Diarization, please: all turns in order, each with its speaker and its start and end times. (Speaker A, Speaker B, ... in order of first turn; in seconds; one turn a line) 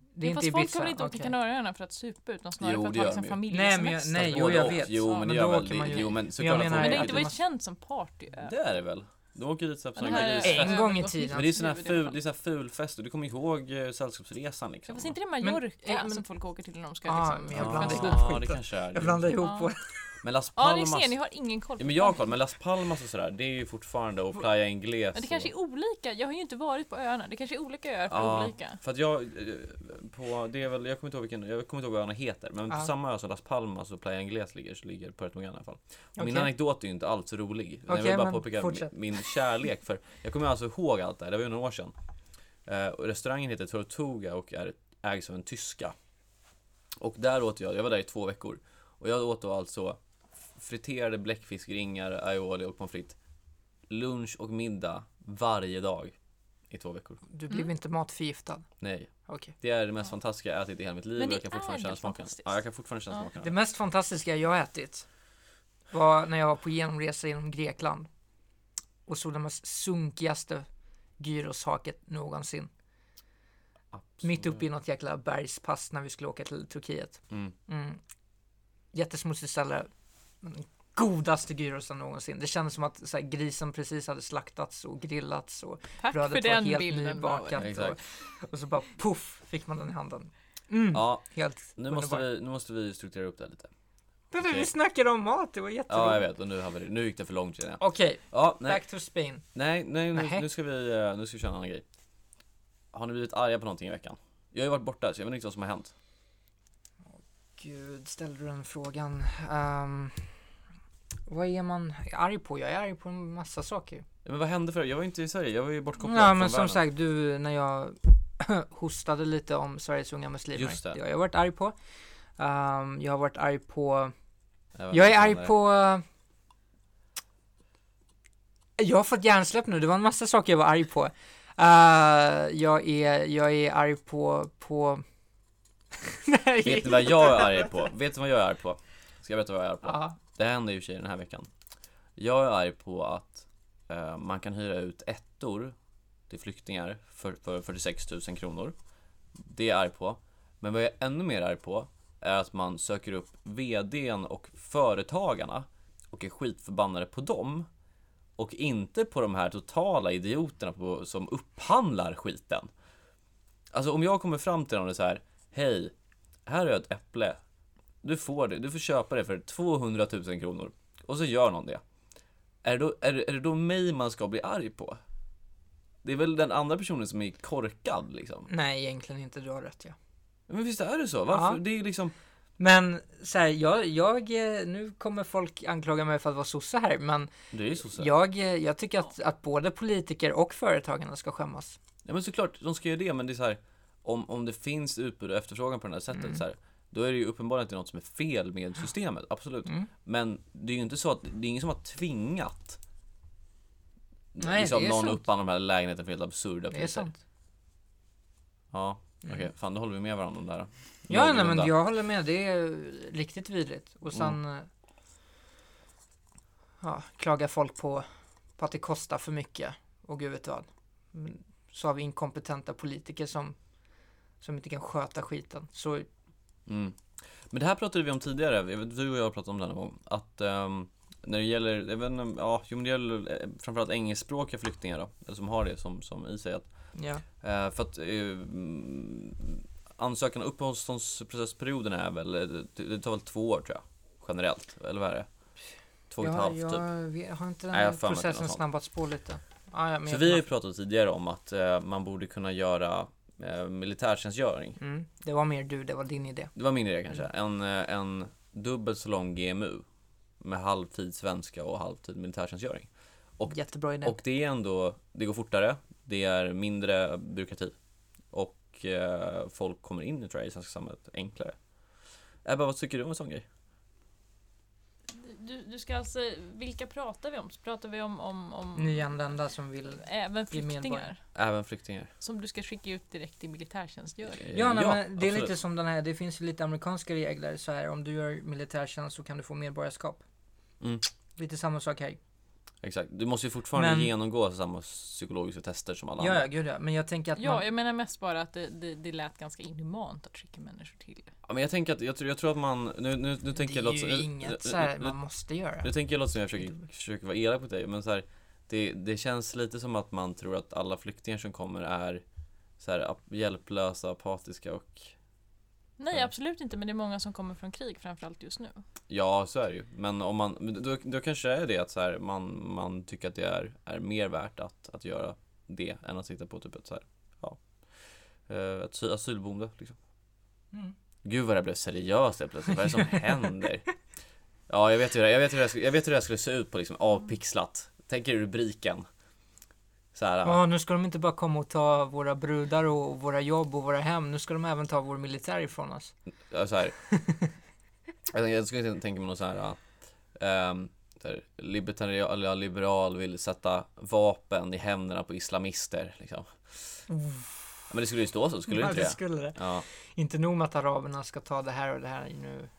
Speaker A: 0.1-1.3
Speaker B: 0.2-5.2
Speaker C: 2.6-3.4
Speaker A: 3.5-7.4
Speaker C: 4.1-7.3
Speaker B: 6.6-8.5
Speaker C: 8.4-15.1
Speaker B: 10.0-12.2
Speaker A: 10.1-11.4
Speaker B: 14.9-18.3
Speaker A: 15.4-16.2
Speaker A: 17.1-20.1
Speaker C: 17.5-19.4
Speaker B: 19.4-19.7
Speaker C: 20.2-21.1
Speaker B: 20.6-22.3
Speaker C: 21.8-25.5
Speaker B: 25.1-28.8
Speaker C: 28.1-41.9
Speaker A: 36.2-36.5
Speaker A: 37.9-38.9
Speaker C: 42.6-45.9
Speaker C: 47.0-50.0
Speaker C: 50.5-53.1
Speaker C: 53.9-56.1
Speaker C: 56.7-57.2
Speaker A: 57.3-58.6
Speaker C: 58.8-63.5
Speaker A: 59.3-59.5
Speaker B: 61.2-62.6
Speaker A: 63.4-65.0
Speaker A: 65.9-68.1
Speaker A: 69.0-70.7
Speaker A: 71.2-72.7
Speaker C: 73.9-74.6
Speaker A: 74.2-78.0
Speaker A: 78.9-79.9
Speaker A: 80.4-92.2
Speaker B: 86.0-87.7
Speaker C: 87.5-88.0
Speaker C: 90.9-93.7
Speaker A: 94.3-96.2
Speaker C: 94.4-94.7
Speaker C: 95.9-98.8
Speaker A: 97.8-99.4
Speaker C: 99.5-101.8
Speaker A: 100.1-100.4
Speaker C: 102.9-105.9
Speaker A: 107.1-110.5
Speaker A: 111.3-114.0
Speaker C: 114.2-116.8
Speaker A: 116.0-121.8
Speaker C: 120.5-121.0
Speaker A: 122.4-124.1
Speaker C: 124.8-125.5
Speaker A: 124.9-126.0
Speaker A: 128.8-135.0
Speaker A: 136.0-137.7
Speaker C: 136.6-141.5
Speaker A: 139.8-140.2
Speaker C: 142.2-145.7
Speaker C: 146.3-148.7
Speaker C: 149.3-157.7
Speaker C: 158.4-162.7
Speaker C: 163.7-165.9
Speaker C: 166.4-167.4
Speaker C: 168.0-171.8
Speaker C: 172.6-175.0
Speaker C: 176.0-178.5
Speaker A: 178.5-179.9
Speaker C: 180.5-182.1
Speaker A: 181.3-181.6
Speaker A: 182.6-187.3
Speaker C: 187.5-188.1
Speaker A: 187.9-191.8
Speaker C: 192.0-202.8
Speaker C: 204.3-207.1
Speaker A: 204.4-205.2
Speaker A: 206.7-207.2
Speaker C: 208.7-211.7
Speaker A: 211.1-214.7
Speaker A: 216.8-218.1
Speaker A: 218.6-223.6
Speaker A: 224.4-226.1
Speaker C: 226.7-245.3
Speaker A: 236.9-237.2
Speaker C: 246.1-246.8
Speaker A: 246.2-250.4
Speaker C: 247.7-248.6
Speaker C: 250.1-254.8
Speaker A: 254.8-256.5
Speaker C: 256.6-259.8
Speaker C: 260.4-267.7
Speaker A: 263.5-264.1
Speaker C: 268.3-271.6
Speaker C: 272.4-273.4
Speaker B: 275.1-279.1
Speaker A: 278.8-281.1
Speaker B: 279.9-281.2
Speaker C: 281.3-282.1
Speaker B: 282.2-284.4
Speaker C: 284.4-285.5
Speaker A: 284.5-290.2
Speaker C: 290.8-291.1
Speaker A: 291.4-292.2
Speaker C: 292.8-296.4
Speaker A: 293.7-294.1
Speaker A: 296.2-297.6
Speaker B: 297.4-301.3
Speaker C: 301.4-305.2
Speaker A: 303.5-305.9
Speaker C: 305.8-312.2
Speaker A: 306.6-306.8
Speaker C: 312.8-315.1
Speaker B: 316.0-318.8
Speaker C: 319.1-329.9
Speaker C: 331.2-333.9
Speaker C: 334.7-339.1
Speaker C: 340.1-340.6
Speaker A: 340.4-346.1
Speaker C: 346.5-346.9
Speaker A: 347.1-347.5
Speaker C: 348.3-349.8
Speaker C: 350.3-357.1
Speaker A: 357.1-357.6
Speaker C: 357.9-359.9
Speaker A: 358.7-362.7